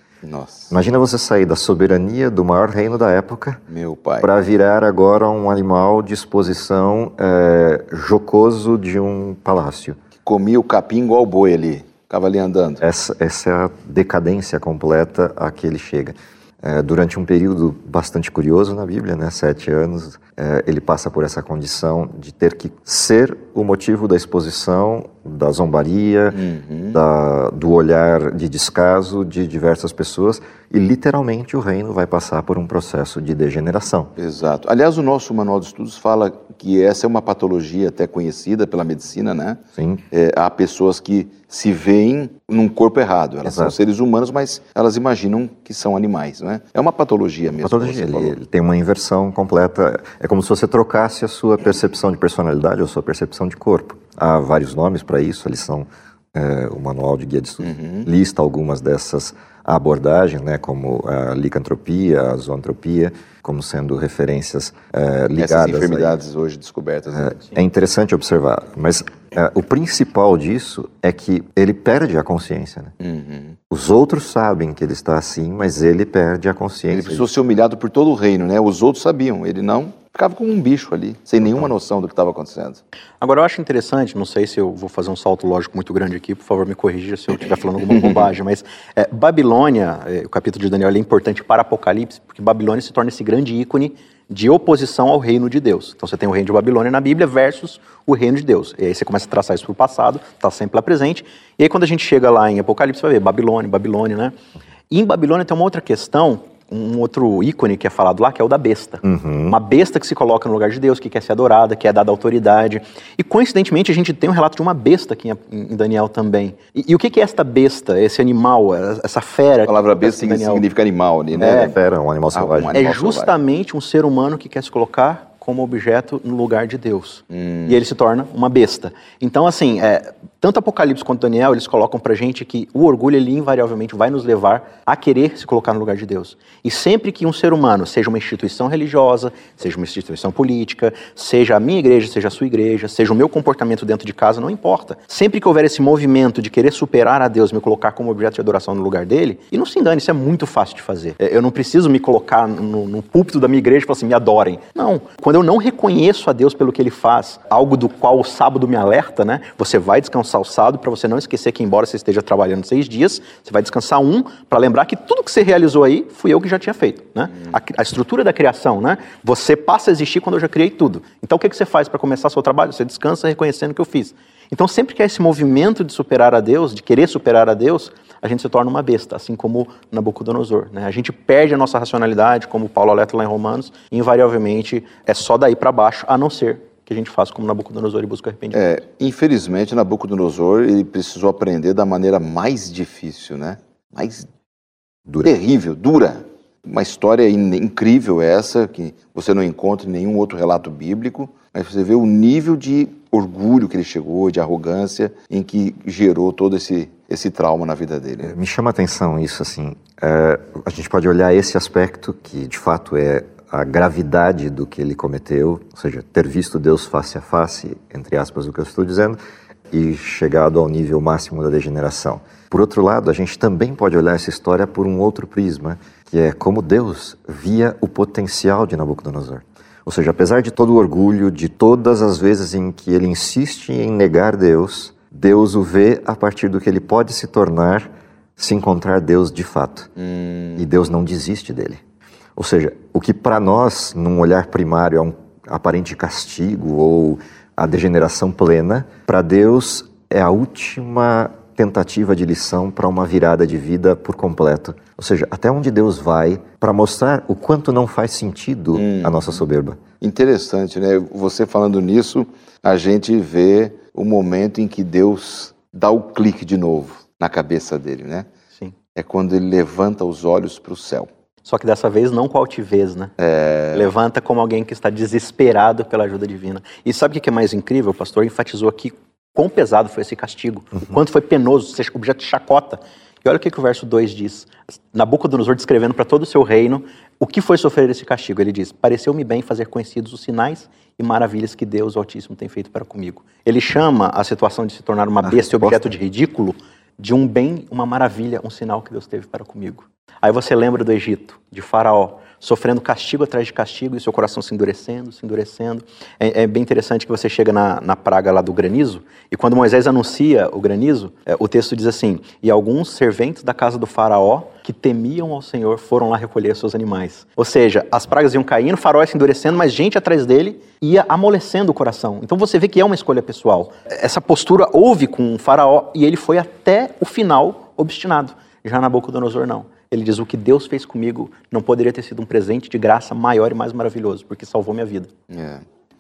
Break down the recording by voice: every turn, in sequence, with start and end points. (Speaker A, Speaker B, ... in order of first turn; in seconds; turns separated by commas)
Speaker A: 0.2-0.7, Speaker B: 0.7-3.6, Speaker A: 3.7-4.3, Speaker B: 4.2-10.0, Speaker A: 10.2-12.8, Speaker B: 12.8-26.4, Speaker A: 26.3-27.0, Speaker B: 26.9-34.1, Speaker A: 34.2-39.6, Speaker B: 39.8-40.0, Speaker A: 40.1-48.4, Speaker B: 43.5-43.8, Speaker B: 47.6-66.2, Speaker A: 57.6-58.1, Speaker A: 65.4-67.5, Speaker B: 67.1-72.9, Speaker A: 73.0-73.6, Speaker B: 73.7-77.3, Speaker A: 76.9-82.8, Speaker B: 81.4-81.7, Speaker C: 83.2-104.3, Speaker A: 88.0-88.2, Speaker C: 104.9-120.7, Speaker B: 109.0-109.6, Speaker A: 119.7-121.8, Speaker B: 121.4-122.9, Speaker C: 121.4-121.7, Speaker A: 122.3-123.3, Speaker C: 122.8-188.6, Speaker A: 127.3-127.8, Speaker A: 188.5-194.3, Speaker A: 195.2-208.3, Speaker B: 208.2-219.2, Speaker B: 219.7-239.9, Speaker A: 240.0-240.7, Speaker B: 240.6-241.8, Speaker B: 242.4-259.8, Speaker A: 258.7-259.2, Speaker A: 260.0-268.3, Speaker A: 268.9-271.1, Speaker C: 271.4-273.1, Speaker A: 273.2-273.9, Speaker C: 273.7-335.1, Speaker B: 295.2-295.9, Speaker A: 335.3-335.6